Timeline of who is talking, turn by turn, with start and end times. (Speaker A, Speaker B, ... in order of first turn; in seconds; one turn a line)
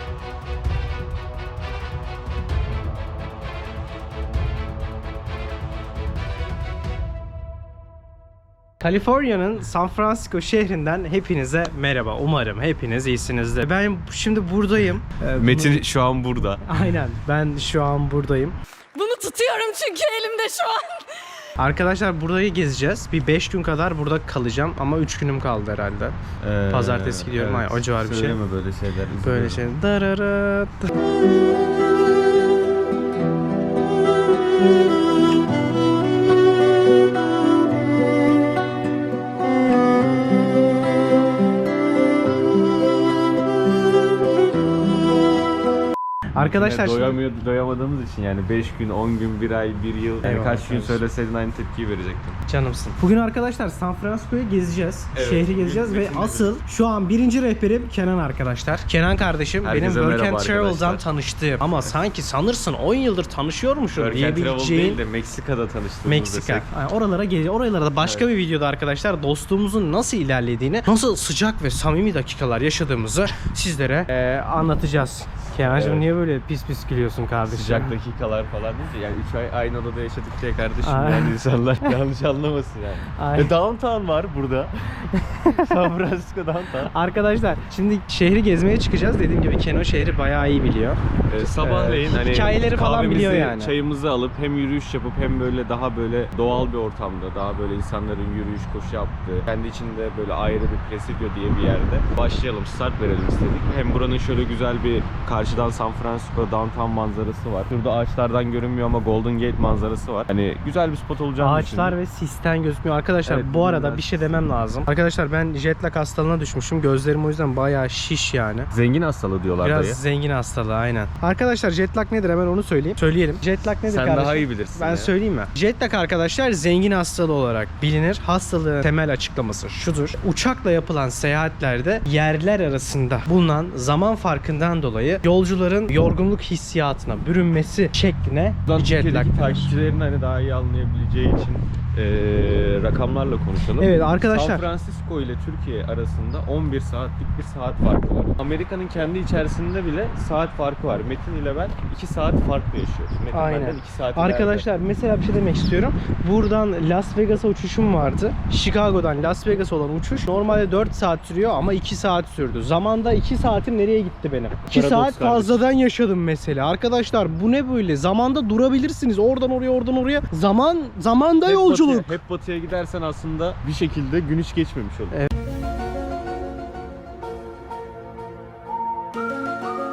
Speaker A: 8.8-15.8
Speaker B: 15.4-16.7
Speaker A: 16.6-18.6
Speaker C: 18.9-21.0
Speaker A: 21.6-26.2
Speaker B: 26.4-29.6
Speaker A: 26.7-28.4
Speaker A: 29.2-30.9
Speaker A: 46.4-47.2
Speaker B: 46.4-52.4
Speaker A: 50.2-51.0
Speaker A: 52.5-65.0
Speaker B: 55.1-56.5
Speaker B: 59.6-61.0
Speaker B: 63.9-66.7
Speaker A: 66.0-77.9
Speaker B: 68.0-68.3
Speaker B: 75.6-76.1
Speaker B: 77.5-86.9
Speaker A: 80.8-81.9
Speaker A: 83.2-83.5
Speaker A: 85.2-85.7
Speaker A: 86.9-93.7
Speaker B: 91.3-111.9
Speaker A: 111.4-118.7
Speaker B: 113.2-114.3
Speaker B: 118.7-120.0
Speaker A: 119.6-139.8
Speaker B: 123.9-125.1
Speaker B: 138.7-154.7
Speaker A: 143.8-144.7
Speaker A: 153.3-172.1
Speaker B: 164.7-165.6
Speaker B: 171.4-175.2